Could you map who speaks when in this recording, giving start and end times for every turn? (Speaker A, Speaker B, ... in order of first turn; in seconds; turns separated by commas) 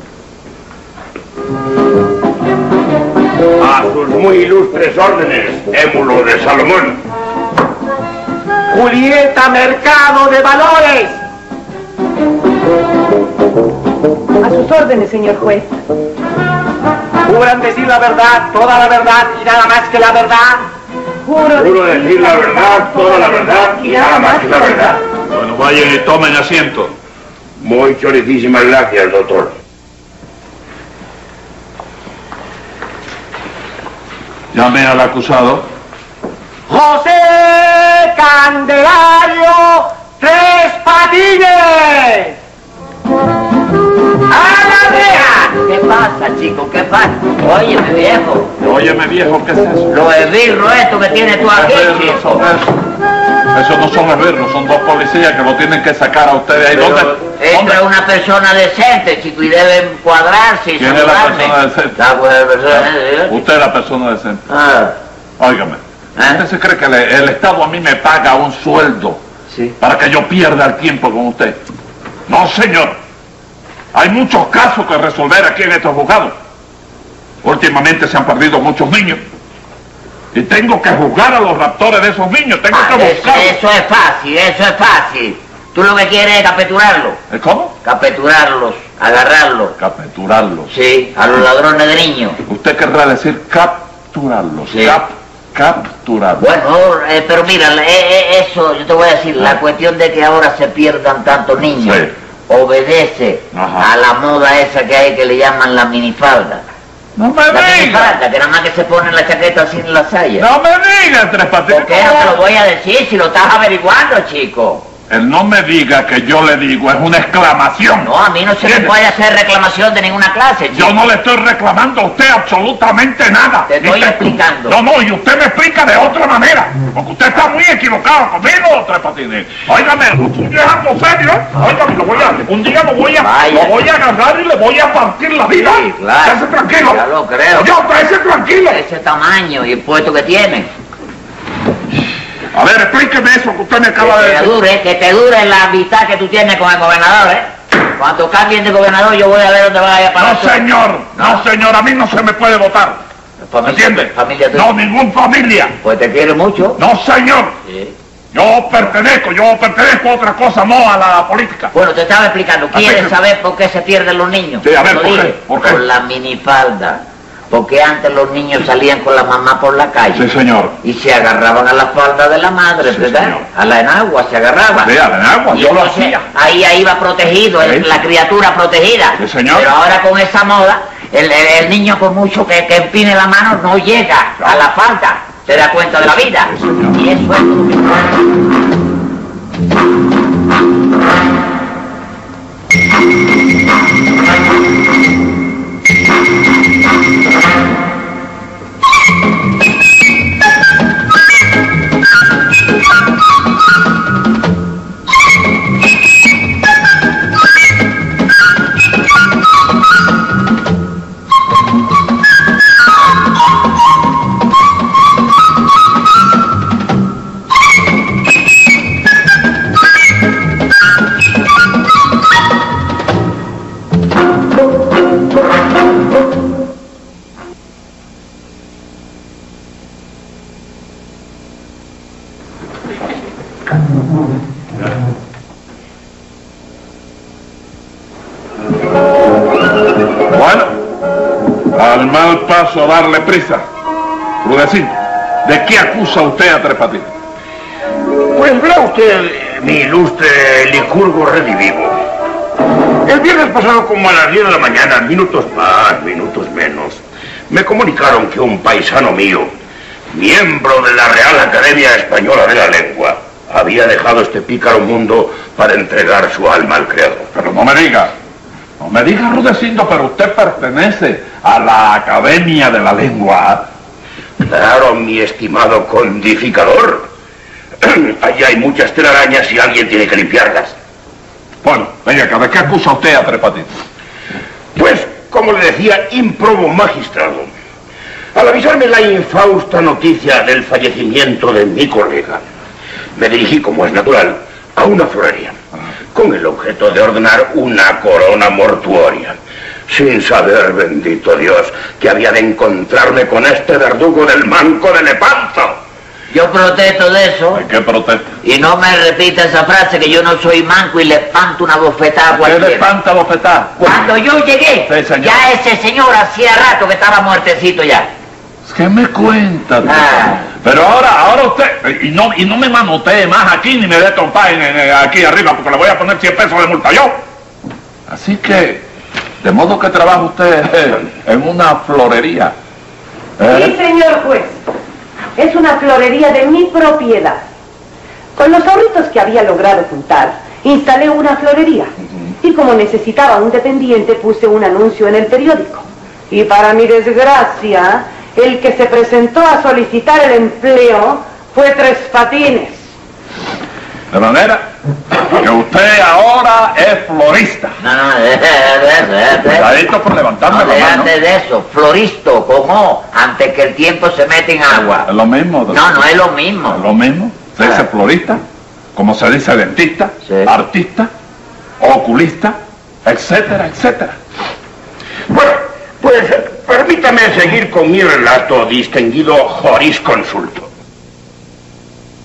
Speaker A: 3.6-7.0, Speaker B: 8.7-11.2, Speaker C: 14.4-15.8, Speaker B: 17.3-20.7, Speaker C: 21.2-25.0, Speaker A: 21.6-25.0, Speaker D: 25.3-26.9, Speaker A: 27.6-29.6, Speaker D: 34.5-35.7, Speaker B: 36.7-42.4, Speaker E: 44.3-48.5, Speaker D: 48.6-50.0, Speaker E: 49.9-52.5, Speaker D: 51.5-52.7, Speaker D: 53.5-57.8, Speaker E: 56.7-63.4, Speaker D: 60.8-62.0, Speaker D: 62.7-64.4, Speaker E: 64.5-65.0, Speaker D: 65.4-69.2, Speaker E: 66.2-66.4, Speaker E: 69.5-69.7, Speaker D: 69.8-71.6, Speaker D: 72.3-73.0, Speaker D: 73.9-76.4, Speaker D: 77.4-79.2, Speaker D: 80.3-83.6, Speaker E: 82.7-87.2, Speaker D: 87.3-87.7, Speaker E: 87.8-89.8, Speaker D: 89.8-90.7, Speaker E: 90.7-92.4, Speaker D: 92.5-96.5, Speaker E: 94.7-95.0, Speaker E: 96.4-106.6, Speaker D: 101.8-102.1, Speaker D: 103.5-103.9, Speaker D: 107.2-108.2, Speaker E: 107.5-110.5, Speaker D: 110.4-112.4, Speaker E: 111.7-114.9, Speaker D: 115.1-118.1, Speaker E: 118.0-120.9, Speaker D: 118.7-118.9, Speaker D: 120.7-138.8, Speaker E: 123.7-124.8, Speaker E: 133.2-133.8, Speaker E: 135.5-137.7, Speaker E: 138.7-140.7, Speaker D: 142.5-144.5, Speaker E: 144.0-151.4, Speaker D: 150.2-153.0, Speaker E: 153.4-154.7, Speaker D: 153.6-155.8, Speaker E: 155.8-156.8, Speaker D: 156.8-157.6, Speaker E: 157.7-157.9, Speaker D: 158.3-161.7, Speaker E: 161.7-170.3, Speaker D: 162.7-163.2, Speaker D: 164.6-165.8, Speaker D: 170.2-170.8, Speaker E: 170.8-174.9, Speaker D: 172.9-173.4, Speaker D: 174.8-176.2, Speaker E: 175.5-188.0, Speaker D: 177.6-177.9, Speaker D: 179.2-179.7, Speaker D: 184.4-184.7, Speaker D: 186.0-187.0, Speaker D: 240.3-240.8, Speaker D: 241.7-243.7, Speaker D: 244.4-247.1, Speaker A: 248.3-252.0, Speaker A: 253.1-259.5, Speaker A: 260.1-267.3, Speaker D: 267.3-268.1, Speaker D: 268.8-273.7, Speaker A: 274.4-277.1, Speaker A: 277.8-280.8, Speaker D: 281.6-283.7, Speaker A: 284.8-287.5, Speaker A: 288.3-292.4, Speaker A: 293.2-295.6, Speaker A: 296.1-305.8, Speaker E: 306.3-307.6, Speaker D: 307.5-308.3, Speaker E: 308.4-312.9, Speaker D: 312.3-314.0, Speaker E: 313.8-318.1, Speaker D: 314.9-315.5, Speaker D: 318.7-327.2, Speaker E: 319.8-320.5, Speaker D: 328.1-328.9, Speaker D: 329.4-332.6, Speaker D: 333.4-333.8, Speaker C: 333.5-334.6, Speaker C: 335.4-337.5, Speaker C: 338.4-352.9, Speaker D: 354.1-357.8, Speaker E: 357.8-359.8, Speaker D: 359.5-361.1, Speaker E: 360.5-365.1, Speaker D: 364.7-366.1, Speaker E: 365.7-366.8, Speaker D: 366.7-368.4, Speaker D: 368.9-371.1, Speaker E: 370.2-370.5, Speaker D: 371.8-374.2, Speaker A: 375.3-380.7